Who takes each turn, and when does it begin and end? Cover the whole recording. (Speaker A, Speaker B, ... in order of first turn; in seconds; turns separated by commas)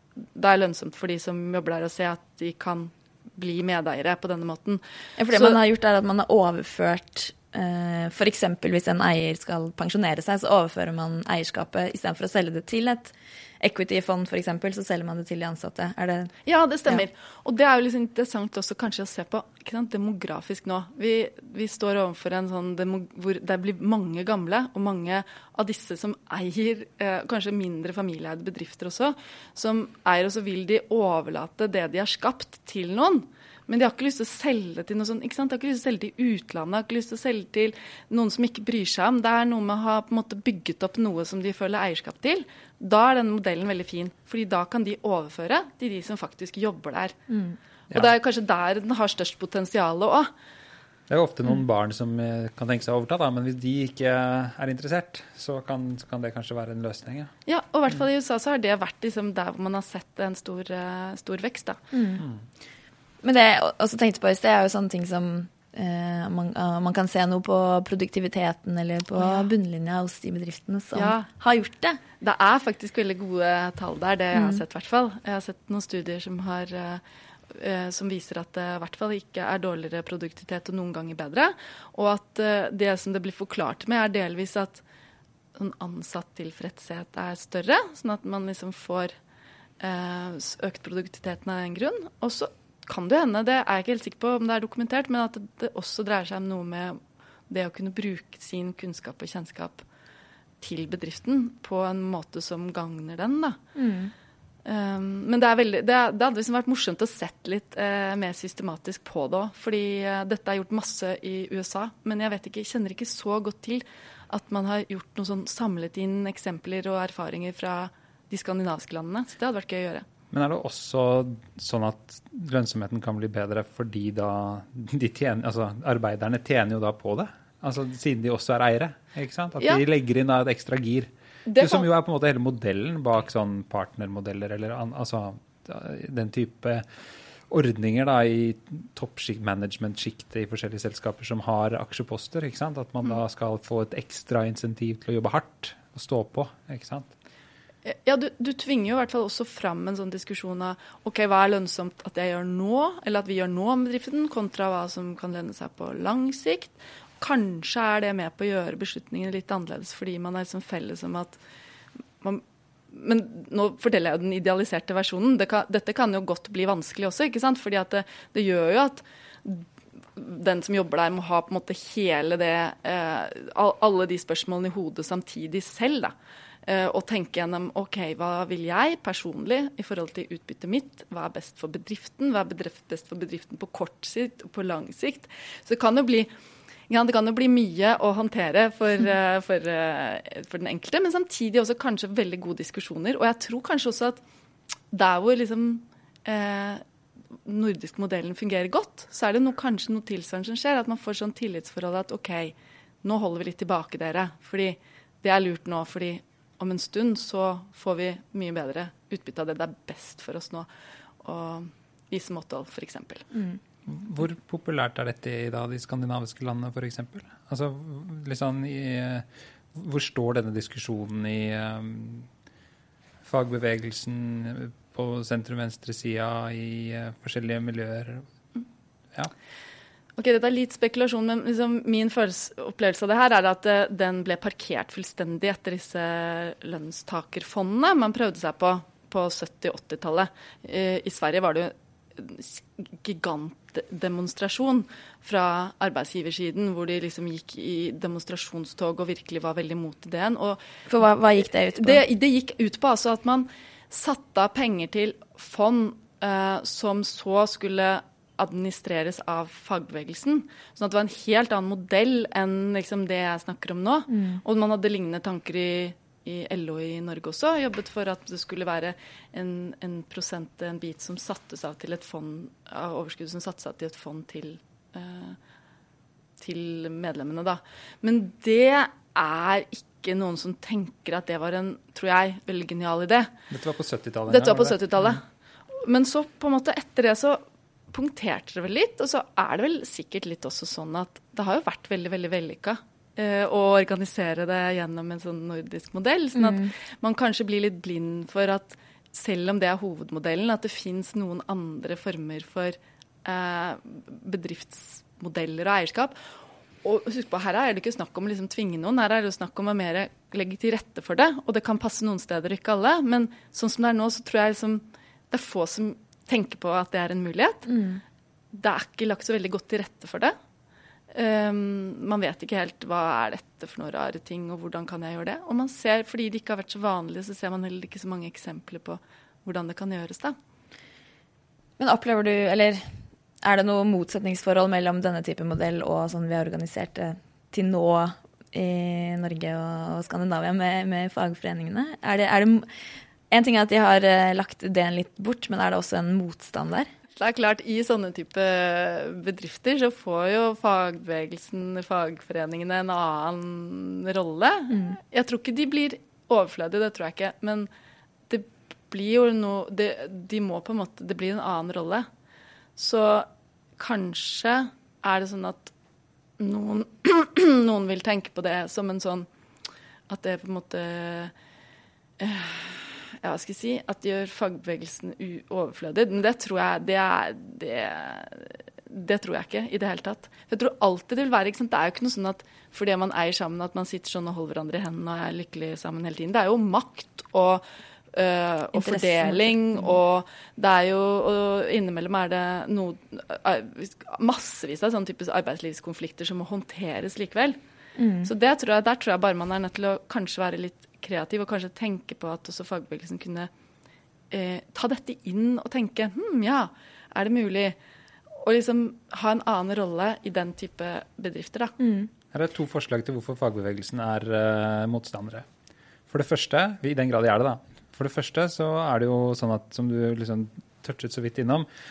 Speaker A: 0.3-5.6, Speaker B: 5.2-16.3, Speaker A: 16.4-47.1, Speaker B: 47.3-47.5, Speaker A: 47.9-50.3, Speaker C: 51.1-57.3, Speaker A: 57.5-61.8, Speaker B: 61.9-62.2, Speaker B: 63.2-72.0, Speaker A: 69.2-69.5, Speaker A: 70.9-71.3, Speaker A: 72.2-84.8, Speaker B: 74.3-74.6, Speaker A: 85.5-89.1, Speaker A: 89.8-99.8, Speaker A: 100.6-103.6, Speaker B: 103.8-104.1, Speaker A: 104.6-120.0, Speaker C: 120.3-136.9, Speaker A: 131.5-131.9, Speaker C: 137.5-147.1, Speaker A: 147.8-161.4, Speaker A: 162.2-176.1, Speaker A: 176.6-186.3, Speaker A: 186.9-194.2, Speaker A: 194.9-196.8, Speaker A: 197.4-210.7, Speaker A: 211.2-213.2, Speaker C: 213.8-222.3, Speaker C: 223.2-228.2, Speaker A: 230.2-250.6, Speaker B: 250.9-252.0, Speaker A: 251.4-275.4, Speaker B: 264.1-264.4, Speaker A: 276.4-283.3, Speaker C: 283.5-285.2, Speaker A: 284.3-285.2, Speaker A: 285.8-306.2, Speaker B: 296.4-296.7, Speaker A: 306.8-317.7, Speaker B: 317.7-318.0, Speaker A: 318.5-320.3, Speaker A: 321.1-330.4, Speaker B: 331.8-342.7, Speaker B: 343.3-346.9, Speaker A: 347.1-357.7, Speaker B: 354.7-355.0, Speaker A: 358.3-362.1, Speaker A: 362.8-365.7, Speaker A: 366.4-369.3, Speaker A: 370.1-371.3, Speaker A: 372.2-397.6, Speaker B: 388.7-389.9, Speaker B: 398.0-398.3, Speaker A: 398.2-403.5, Speaker A: 404.3-407.8, Speaker A: 408.4-411.8, Speaker B: 411.8-412.1, Speaker C: 412.3-415.5, Speaker C: 416.1-421.7